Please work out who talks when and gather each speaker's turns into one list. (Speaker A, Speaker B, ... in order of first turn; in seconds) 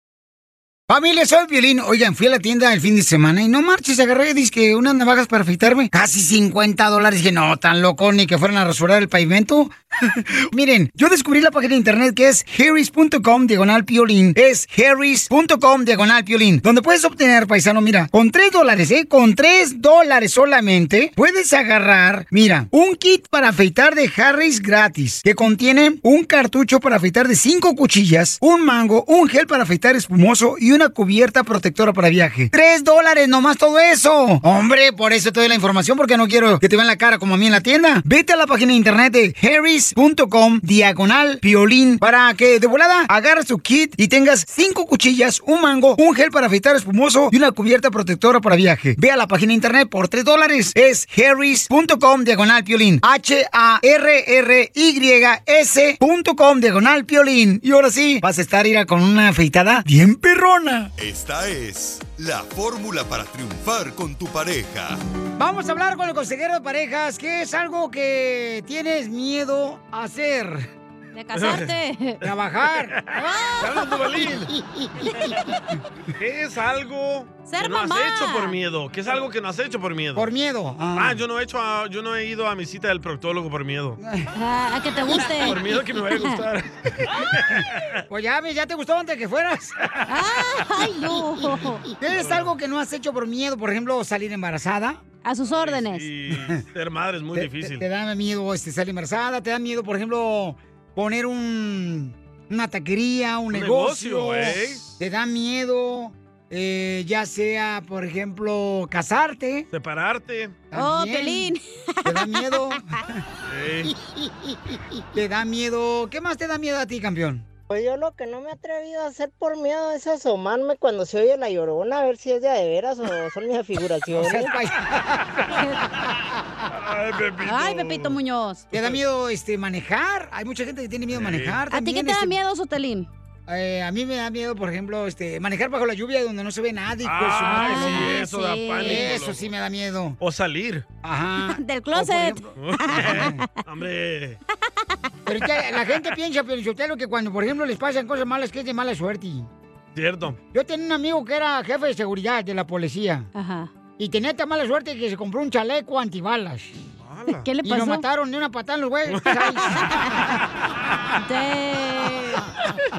Speaker A: 0.9-60.9, 65.4-70.7, 72.2-73.0, 74.2-75.5, 80.2-81.2, 84.0-84.3, 88.1-89.8, 91.9-95.0, 96.3-96.6, 97.3-109.7, 110.7-113.2, 115.1-117.5, 124.1-125.5, 128.7-132.3, 133.5-138.2, 138.8-140.2, 141.0-143.4, 145.3-149.5, 150.5-153.3, 154.0-156.8, 157.6-160.4
Speaker B: 61.0-65.0
Speaker C: 71.1-72.2, 73.1-74.1, 77.5-78.6, 84.3-86.4, 90.1-91.9, 95.2-96.1, 110.7-112.8, 125.5-125.8, 127.4-128.7, 131.7-133.1, 137.5-139.2, 141.4-143.5, 153.3-153.7, 157.4-158.1, 159.8-160.3, 161.2-162.5
Speaker D: 71.3-71.8, 72.7-74.5, 76.2-80.3, 81.0-84.0, 85.2-88.0, 92.1-92.5, 95.5-97.9, 103.5-104.9, 109.7-110.6, 113.5-114.0, 126.7-128.2, 128.7-129.0, 131.1-131.6, 137.0-139.5, 140.2-140.9, 142.6-144.4, 149.9-150.4, 157.0-157.5, 159.1-161.2
Speaker E: 117.7-124.5